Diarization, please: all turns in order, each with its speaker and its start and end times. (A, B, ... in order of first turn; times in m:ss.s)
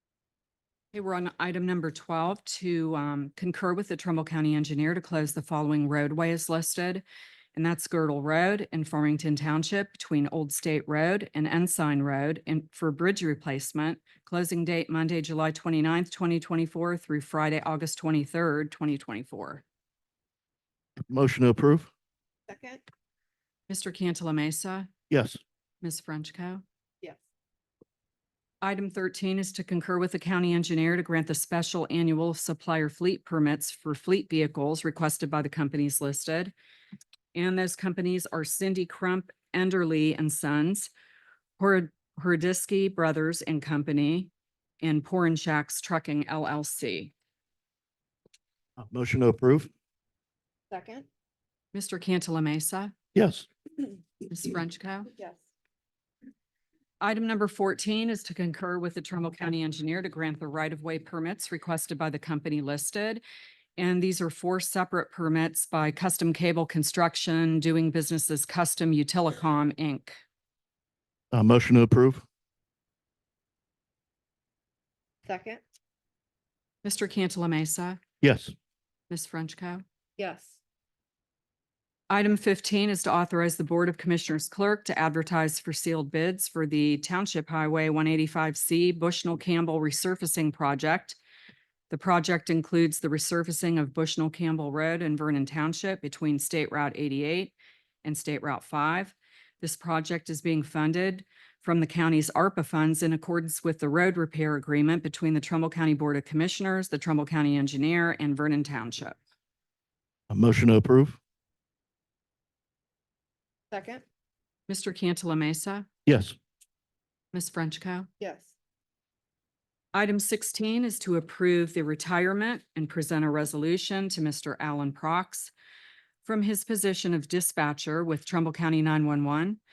0:00.9-0:07.0 A
0:07.5-0:19.6 A
0:21.1-0:21.9 B
0:22.5-0:22.8 C
0:23.7-0:24.9 A
0:25.1-0:25.4 B
0:25.8-0:26.6 A
0:28.6-0:36.5 A
0:37.3-0:40.9 A
0:41.6-0:47.1 A
0:48.8-0:49.7 B
0:50.7-0:51.1 C
0:51.7-0:52.9 A
0:53.1-0:53.5 B
0:54.3-0:55.1 A
0:55.1-0:55.4 C
0:57.0-1:03.2 A
1:03.8-1:10.2 A
1:11.3-1:12.2 B
1:15.2-1:15.6 C
1:16.8-1:18.0 A
1:18.2-1:18.5 B
1:19.1-1:19.8 A
1:20.2-1:20.6 C
1:22.1-1:31.2 A
1:31.9-1:49.2 A
1:50.3-1:51.2 B
1:53.7-1:54.0 C
1:54.7-1:55.9 A
1:56.0-1:56.4 B
1:57.3-1:58.1 A
1:58.2-1:58.5 C
1:59.9-2:05.5 A
2:06.2-2:09.6 A